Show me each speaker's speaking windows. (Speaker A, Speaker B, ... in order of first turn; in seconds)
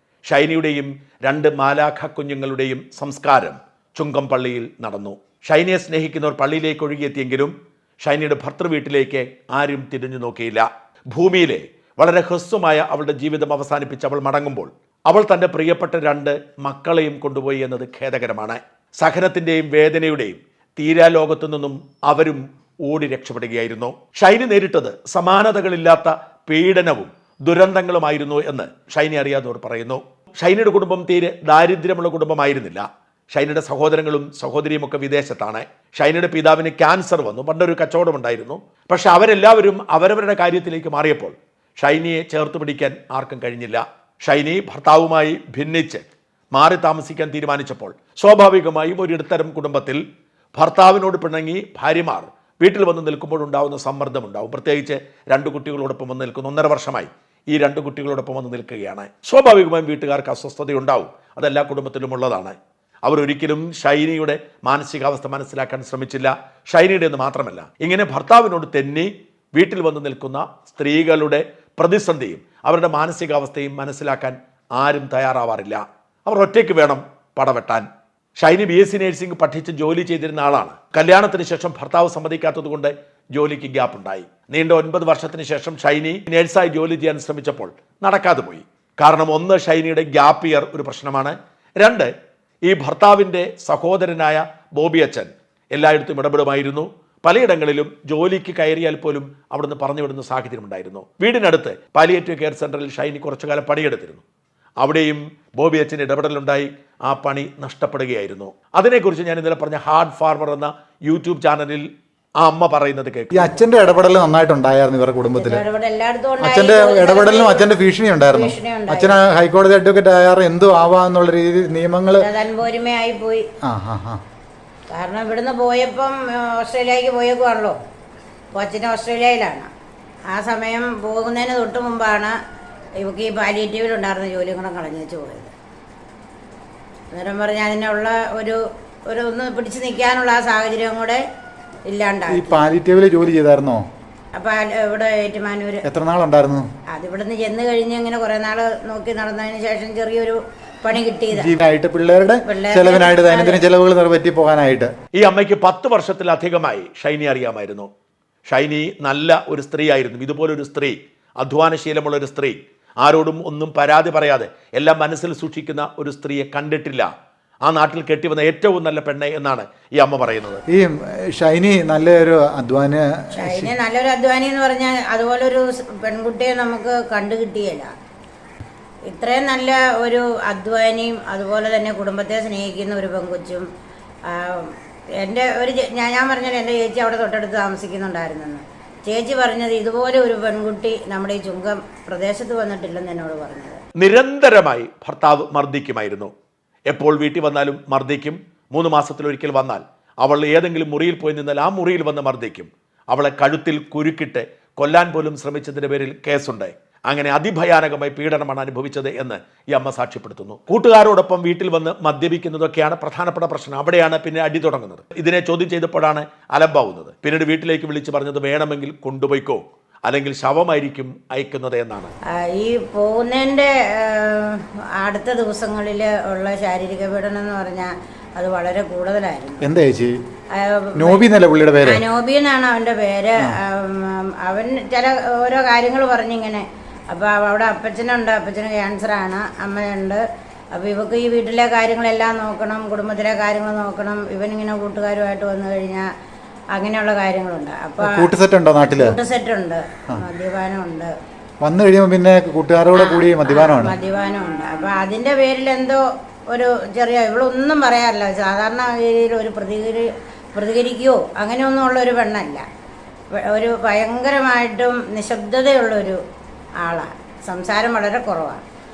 Speaker A: 0.3-50.0, 50.5-77.9, 78.4-92.1, 92.6-104.2, 104.8-111.9, 112.4-113.6, 155.2-157.9, 158.5-167.1, 167.6-170.6, 194.0-196.3, 196.9-222.1
Speaker B: 113.3-115.6, 116.4-122.3, 123.6-124.2, 142.3-143.8, 145.8-146.6, 151.3-154.9, 170.7-173.7, 229.6-230.2, 230.9-232.0, 248.0-249.2, 251.6-253.9
Speaker C: 115.3-117.7, 118.3-119.2, 122.2-123.5, 124.9-127.8, 128.5-129.7, 130.3-132.3, 133.0-135.5, 137.1-141.2, 141.9-142.6, 144.3-145.8, 146.9-151.5, 152.5-153.6, 173.4-177.9, 179.1-183.7, 184.3-193.8, 222.3-229.7, 230.5-231.2, 231.8-240.2, 240.7-246.1, 246.7-248.3, 248.9-251.1, 252.9-262.6, 263.3-266.2, 266.8-268.6